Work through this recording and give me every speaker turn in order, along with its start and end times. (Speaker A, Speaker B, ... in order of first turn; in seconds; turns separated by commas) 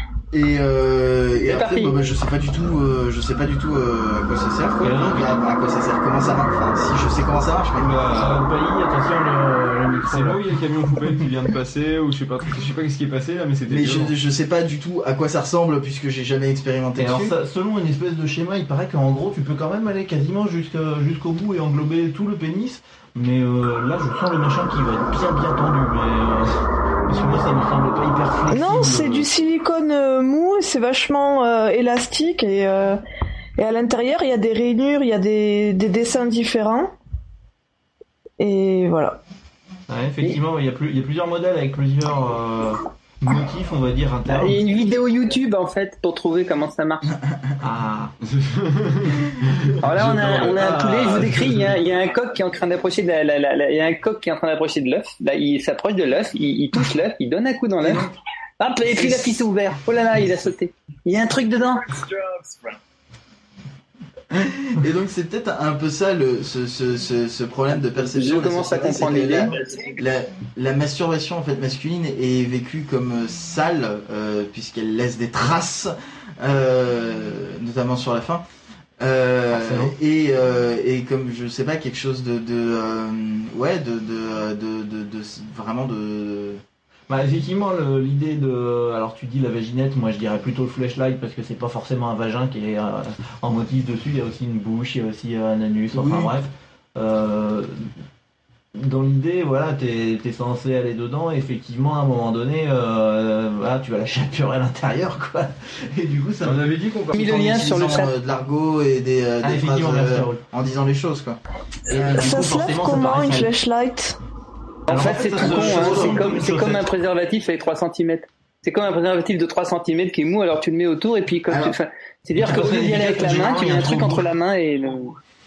Speaker A: 0.3-8.0, Speaker B: 1.4-2.0, Speaker C: 4.8-5.3, Speaker D: 7.8-8.5, Speaker C: 8.1-10.5, Speaker D: 10.0-14.1, Speaker A: 13.7-17.3, Speaker C: 17.0-29.3, Speaker E: 28.5-33.0, Speaker E: 33.6-36.9, Speaker E: 38.4-39.2, Speaker C: 39.9-44.6, Speaker B: 44.3-47.1, Speaker A: 47.1-47.6, Speaker C: 47.6-48.1, Speaker D: 48.3-50.7, Speaker B: 49.8-58.1, Speaker C: 50.1-51.7, Speaker A: 57.8-58.2, Speaker B: 58.6-62.0, Speaker A: 58.9-59.4, Speaker A: 64.3-78.4, Speaker B: 68.1-69.6, Speaker A: 79.0-86.6, Speaker C: 79.5-80.0, Speaker C: 87.1-97.9, Speaker A: 95.9-96.3, Speaker C: 98.8-106.7, Speaker D: 106.4-107.3, Speaker B: 107.1-108.1, Speaker A: 107.1-111.4, Speaker C: 109.4-110.4, Speaker C: 111.9-113.5, Speaker A: 111.9-112.4, Speaker E: 112.1-114.2, Speaker C: 114.9-116.9, Speaker B: 114.9-125.2, Speaker A: 115.3-116.3, Speaker A: 121.5-121.8, Speaker C: 122.4-124.3